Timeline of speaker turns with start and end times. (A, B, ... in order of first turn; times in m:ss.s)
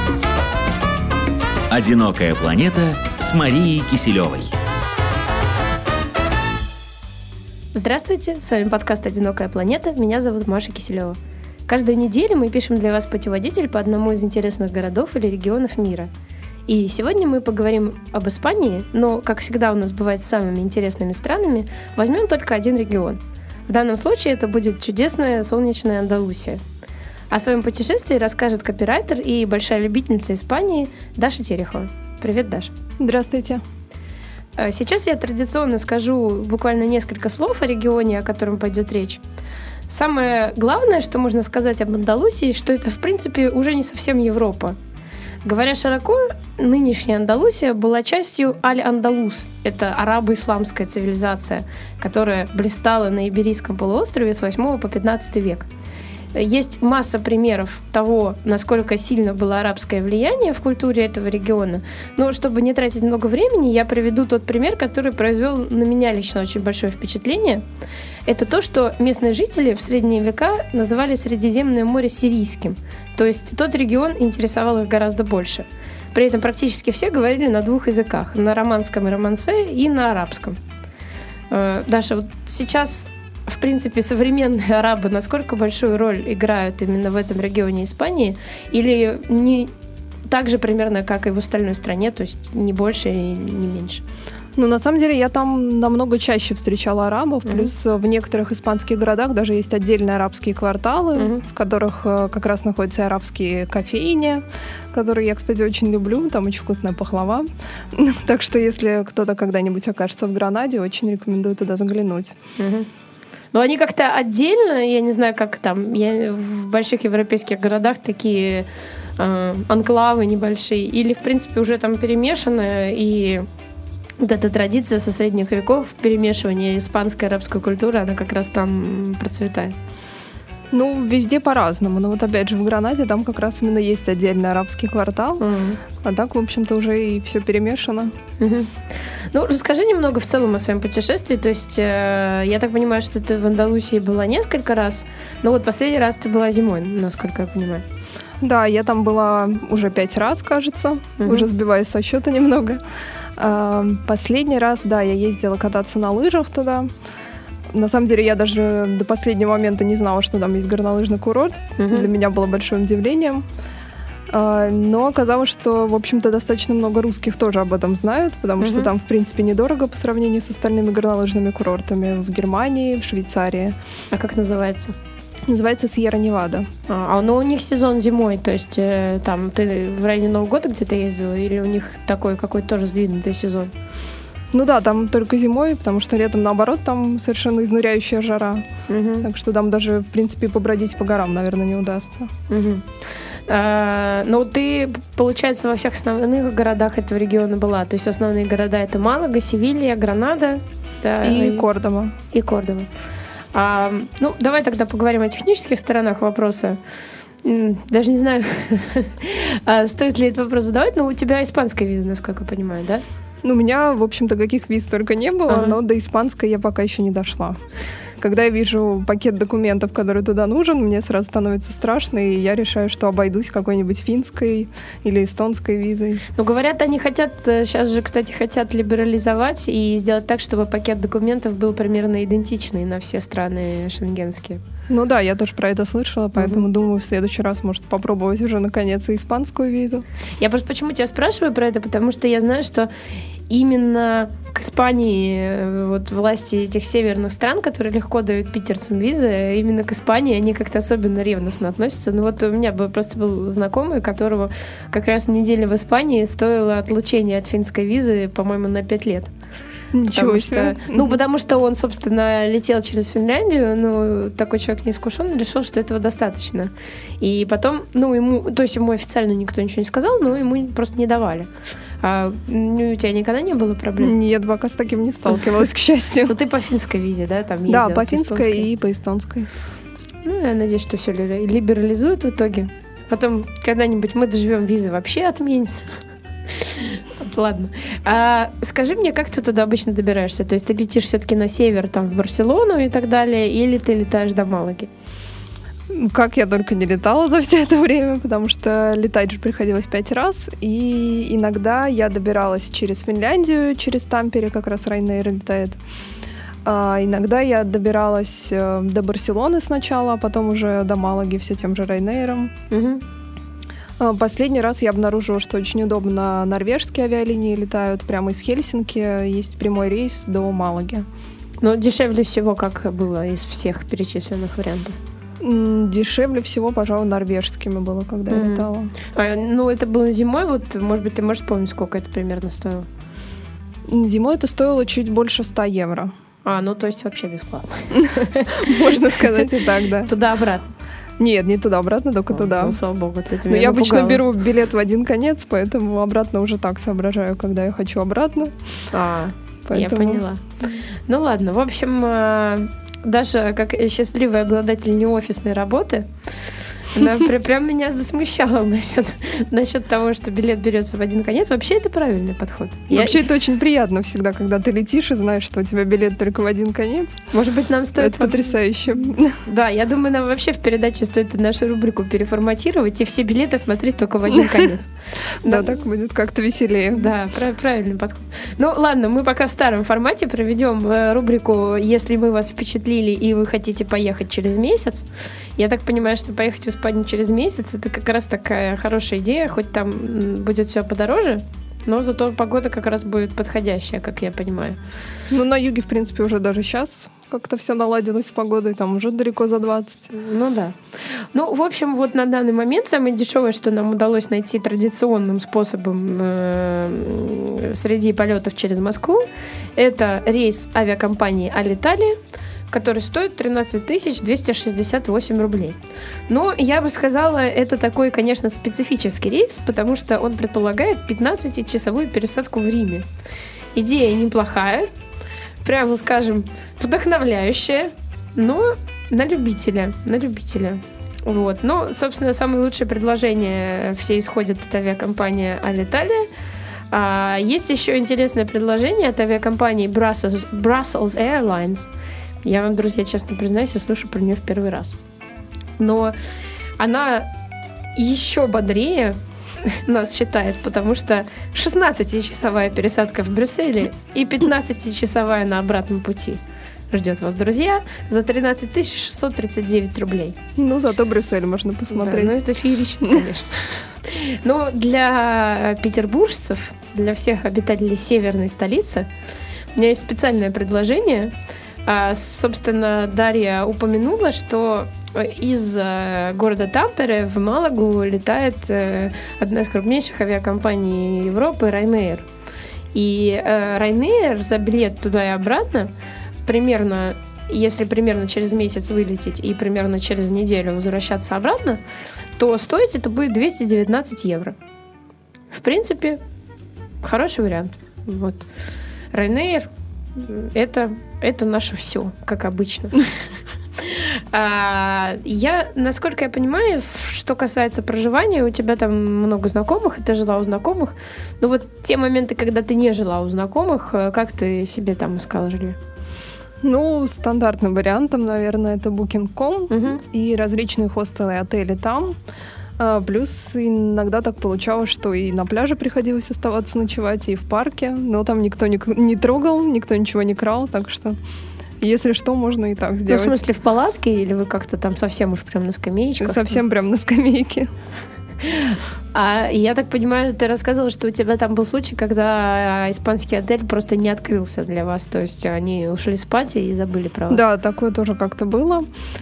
0:01.7-0:04.5 A
0:07.7-0:16.1 B
0:16.7-0:26.6 B
0:27.3-0:32.7 B
0:33.0-0:33.6 C
0:34.6-0:39.2 B
0:39.9-0:44.8 B
0:45.4-0:55.7 B
0:56.3-1:07.6 B
1:08.2-1:20.6 B
1:21.5-1:29.7 B
1:30.3-1:34.0 B
1:34.6-1:52.4 C
1:37.4-1:37.7 B
1:41.2-1:41.4 B
1:52.6-1:52.9 B
1:53.5-2:03.5 B
2:04.2-2:09.8 B
2:10.7-2:15.4 C
2:15.4-2:15.8 B
2:16.0-2:18.1 C
2:18.4-2:27.8 B
2:28.4-2:32.8 C
2:31.2-2:31.5 B
2:33.4-2:36.9 C
2:37.7-2:43.4 C
2:41.8-2:42.1 B
2:44.3-2:53.8 C
2:48.6-2:48.9 B
2:54.1-2:54.9 B
2:55.5-2:56.7 C
2:56.9-3:03.7 B
3:04.5-3:08.6 C
3:08.9-3:09.3 B
3:09.2-3:12.3 C
3:12.5-3:21.7 B
3:21.2-3:22.1 C
3:22.3-3:22.9 B
3:23.5-3:26.8 B
3:27.4-3:33.0 B
3:33.4-3:37.6 C
3:35.5-3:35.8 B
3:38.2-3:46.2 C
3:46.3-3:54.6 B
3:54.9-4:00.0 C
3:56.4-3:56.6 B
4:00.4-4:02.9 B
4:03.5-4:19.3 B
4:19.9-4:21.2 C
4:20.1-4:31.5 B
4:32.0-4:34.1 B
4:34.0-4:36.3 C
4:36.3-4:38.7 B
4:37.7-4:39.5 C
4:40.2-4:46.0 B
4:46.5-4:54.9 B
4:55.9-5:05.8 C
5:06.6-5:12.5 C
5:12.7-5:13.0 B
5:14.0-5:21.0 C
5:21.6-5:25.0 B
5:25.4-5:28.9 C
5:28.3-5:32.9 B
5:33.9-5:36.1 C
5:36.4-5:38.7 B
5:37.9-5:40.1 C
5:40.0-5:40.7 B
5:41.2-5:42.8 C
5:42.3-5:44.2 B
5:43.5-5:48.5 C
5:48.9-6:03.2 B
5:49.6-5:50.2 C
6:02.9-6:07.2 C
6:07.3-6:08.4 B
6:08.0-6:09.4 C
6:09.4-6:15.7 B
6:15.4-6:17.1 C
6:16.9-6:34.8 B
6:35.3-6:40.1 C
6:40.1-6:49.2 B
6:49.8-6:52.2 B
6:52.7-7:03.1 B
7:03.7-7:04.9 B
7:05.6-7:16.3 B
7:16.9-7:21.9 B
7:22.4-7:25.0 B
7:25.8-7:26.1 B
7:26.8-7:27.3 B
7:28.0-7:40.4 B
7:40.6-7:42.3 C
7:41.9-7:49.1 B
7:49.7-7:51.3 B
7:51.8-8:02.3 B
8:02.9-8:05.9 B
8:06.4-8:11.8 B
8:12.4-8:14.6 B
8:15.5-8:16.2 B
8:17.0-8:18.5 B
8:19.1-8:23.2 B
8:23.8-8:35.8 B
8:36.6-8:42.2 C
8:39.7-8:40.0 B
8:42.8-8:51.2 C
8:51.8-8:53.4 C
8:53.1-8:56.6 B
8:56.2-8:57.7 C
8:58.4-9:07.4 B
9:07.3-9:08.9 C